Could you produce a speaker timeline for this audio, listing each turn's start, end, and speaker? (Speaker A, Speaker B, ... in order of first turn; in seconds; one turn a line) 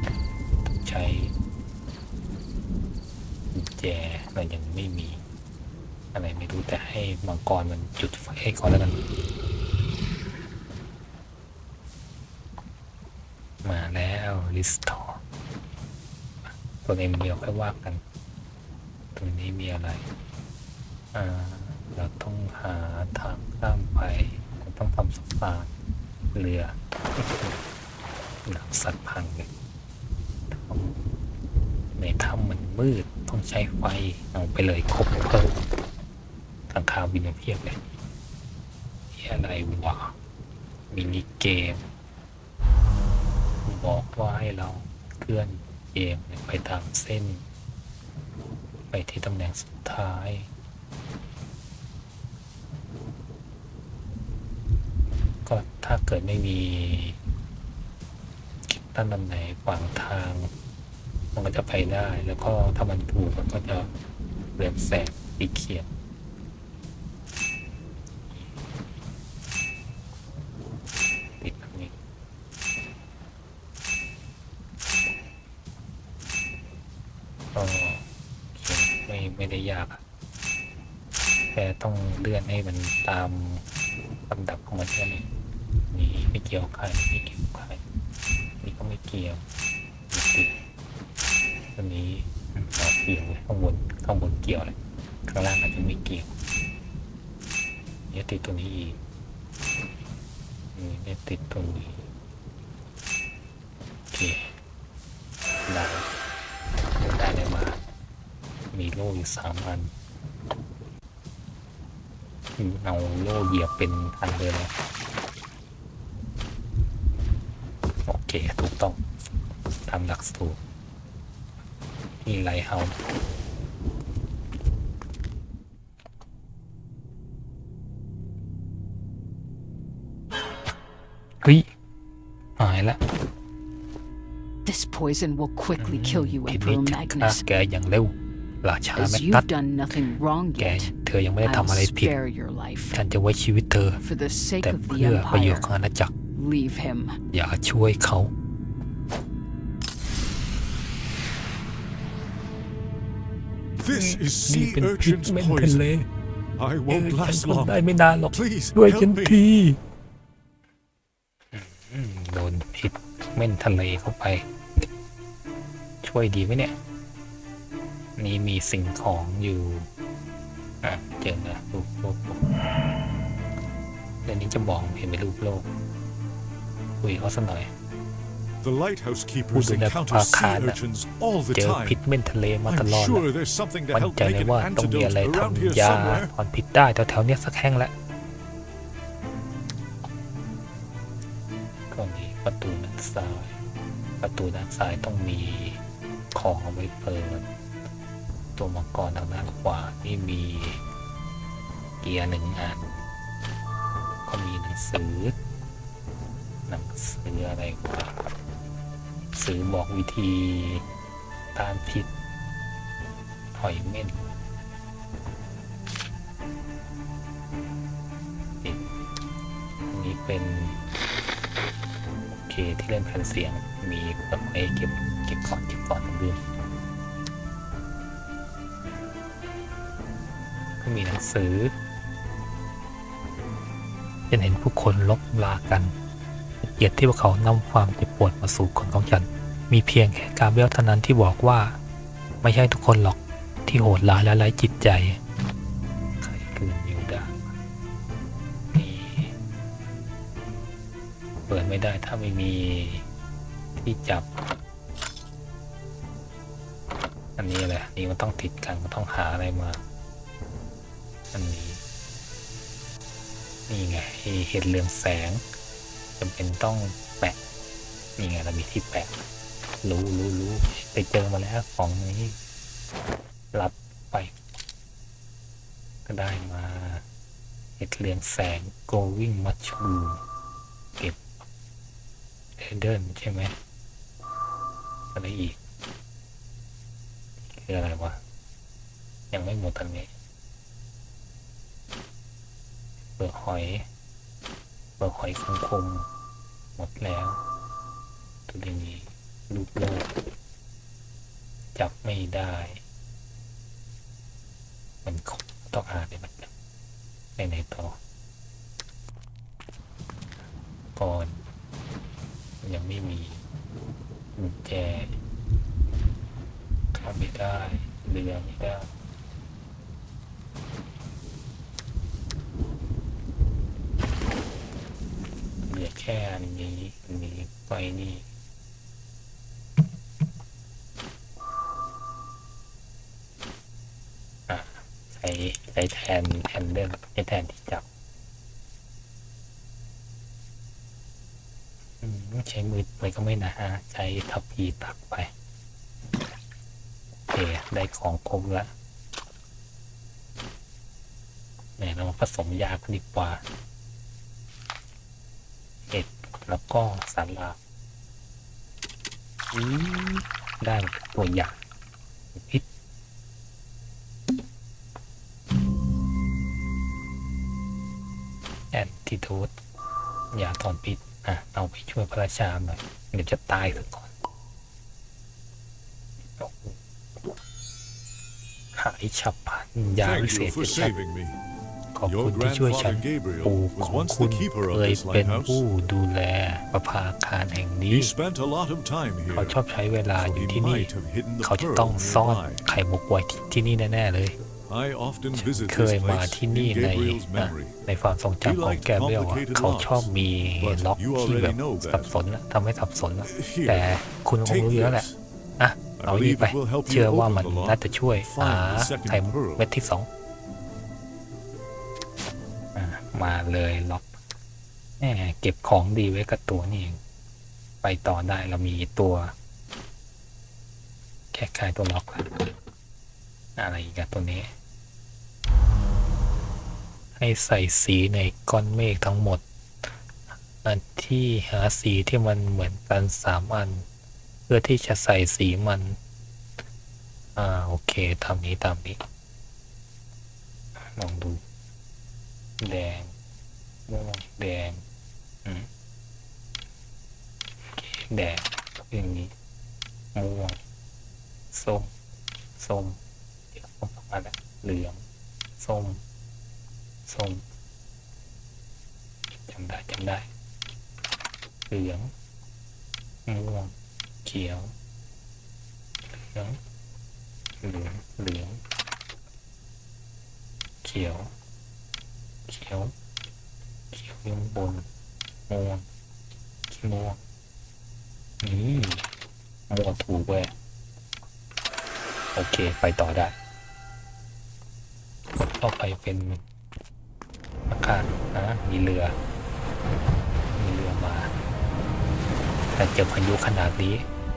Speaker A: 0.7-1.3
Speaker A: 3.5-5.2
Speaker A: 6.1-9.0
Speaker A: 13.6-15.2
Speaker A: 16.4-18.0
Speaker A: 19.1-20.1
Speaker A: 21.1-25.7
Speaker A: 26.3-27.6
Speaker A: 28.4-29.5
Speaker A: 30.5-31.0
Speaker A: 31.9-35.5
Speaker A: 36.7-37.8
Speaker A: 39.1-40.1
Speaker A: 40.9-41.9
Speaker A: 43.6-47.4
Speaker A: 48.9-50.5
Speaker A: 55.4-57.2
Speaker A: 58.6-60.5
Speaker A: 61.3-63.9
Speaker A: 64.6-65.9
Speaker A: 68.3-68.5
Speaker A: 71.4-71.9
Speaker A: 77.5-80.0
Speaker A: 81.5-83.6
Speaker A: 84.3-85.3
Speaker A: 85.9-87.8
Speaker A: 88.6-89.4
Speaker A: 90.1-90.5
Speaker A: 91.7-94.7
Speaker A: 95.3-96.3
Speaker A: 98.1-99.0
Speaker A: 100.7-102.0
Speaker A: 104.1-104.5
Speaker A: 105.7-106.1
Speaker A: 107.0-107.8
Speaker A: 108.7-109.9
Speaker A: 112.6-114.7
Speaker A: 118.1-119.0
Speaker A: 119.8-120.6
Speaker A: 122.2-123.0
Speaker A: 131.4-131.7
Speaker A: 132.6-133.0
Speaker B: 134.6-137.4
Speaker A: 135.8-139.4
Speaker B: 138.9-140.9
Speaker A: 140.6-142.1
Speaker B: 141.4-143.0
Speaker A: 142.9-144.0
Speaker B: 144.0-145.7
Speaker A: 144.6-146.1
Speaker B: 146.3-147.2
Speaker A: 147.3-148.3
Speaker C: 153.8-155.8
Speaker A: 153.9-156.1
Speaker C: 156.6-157.8
Speaker A: 156.9-159.8
Speaker C: 158.3-159.4
Speaker A: 161.5-164.4
Speaker A: 166.0-166.8
Speaker A: 168.2-169.9
Speaker A: 170.8-172.4
Speaker A: 174.2-175.7
Speaker A: 177.0-177.7
Speaker C: 178.6-182.0
Speaker A: 179.5-180.8
Speaker A: 181.5-183.3
Speaker C: 182.7-186.3
Speaker A: 183.9-187.9
Speaker A: 191.9-193.6
Speaker A: 194.2-195.8
Speaker A: 196.3-197.4
Speaker A: 198.6-200.8
Speaker A: 202.0-203.0
Speaker A: 204.2-205.3
Speaker A: 206.7-208.2
Speaker A: 209.3-210.8
Speaker A: 211.5-212.1
Speaker A: 213.5-214.2
Speaker A: 219.9-220.8
Speaker A: 222.3-226.4
Speaker A: 230.8-231.7
Speaker A: 234.3-235.9
Speaker A: 236.6-241.8
Speaker A: 242.4-245.2
Speaker A: 246.2-247.4
Speaker A: 248.7-249.3
Speaker A: 251.5-253.0
Speaker A: 253.8-254.3
Speaker A: 257.4-259.8
Speaker A: 261.3-261.8
Speaker A: 263.7-265.4
Speaker A: 266.2-267.4
Speaker A: 268.2-269.2
Speaker A: 269.8-272.3
Speaker A: 273.5-274.3
Speaker A: 276.1-277.0
Speaker A: 277.8-280.2
Speaker A: 282.6-283.5
Speaker A: 285.1-285.6
Speaker A: 287.4-288.2
Speaker A: 289.3-290.1
Speaker A: 293.2-293.9
Speaker A: 295.0-296.1
Speaker A: 296.8-297.4
Speaker A: 298.5-300.1
Speaker A: 301.7-302.8
Speaker A: 305.0-306.5
Speaker A: 307.4-308.0
Speaker A: 310.9-311.4
Speaker A: 312.6-313.4
Speaker A: 314.4-315.1
Speaker A: 316.9-318.9
Speaker A: 325.6-328.2
Speaker A: 334.5-337.8
Speaker A: 342.0-345.3
Speaker A: 347.3-348.7
Speaker A: 351.8-353.4
Speaker A: 355.9-357.6
Speaker A: 359.5-361.6
Speaker A: 362.3-362.6
Speaker A: 368.7-369.5
Speaker A: 370.3-374.1
Speaker A: 376.4-376.7
Speaker A: 378.7-381.0
Speaker C: 380.0-381.4
Speaker A: 381.9-388.1
Speaker C: 382.1-385.6
Speaker C: 387.9-389.6
Speaker A: 389.3-390.9
Speaker C: 390.1-392.6
Speaker A: 391.4-394.4
Speaker C: 394.7-397.7
Speaker A: 395.3-405.1
Speaker C: 398.4-400.1
Speaker C: 400.6-402.1
Speaker C: 403.2-405.1
Speaker A: 405.6-410.1
Speaker C: 406.0-409.6
Speaker A: 412.7-414.1
Speaker A: 415.0-417.0
Speaker A: 417.8-419.3
Speaker A: 421.3-422.4
Speaker A: 423.6-424.5
Speaker A: 427.1-429.4
Speaker A: 430.6-433.8
Speaker A: 434.5-436.0
Speaker A: 437.4-439.0
Speaker A: 440.8-441.4
Speaker A: 442.6-443.1
Speaker A: 443.9-444.8
Speaker A: 447.7-449.3
Speaker A: 450.1-450.6
Speaker A: 451.5-451.9
Speaker A: 452.6-453.0
Speaker A: 453.5-455.0
Speaker A: 455.6-456.0
Speaker A: 457.1-457.4
Speaker A: 459.4-460.3
Speaker A: 461.7-462.1
Speaker A: 463.2-463.7
Speaker A: 464.2-464.7
Speaker A: 466.1-466.6
Speaker A: 467.6-468.6
Speaker A: 470.8-471.3
Speaker A: 472.5-472.9
Speaker A: 473.9-474.8
Speaker A: 475.5-475.9
Speaker A: 476.7-477.2
Speaker A: 478.4-479.1
Speaker A: 479.7-480.5
Speaker A: 482.3-483.3
Speaker A: 485.4-486.4
Speaker A: 487.7-489.1
Speaker A: 490.6-491.3
Speaker A: 492.7-494.1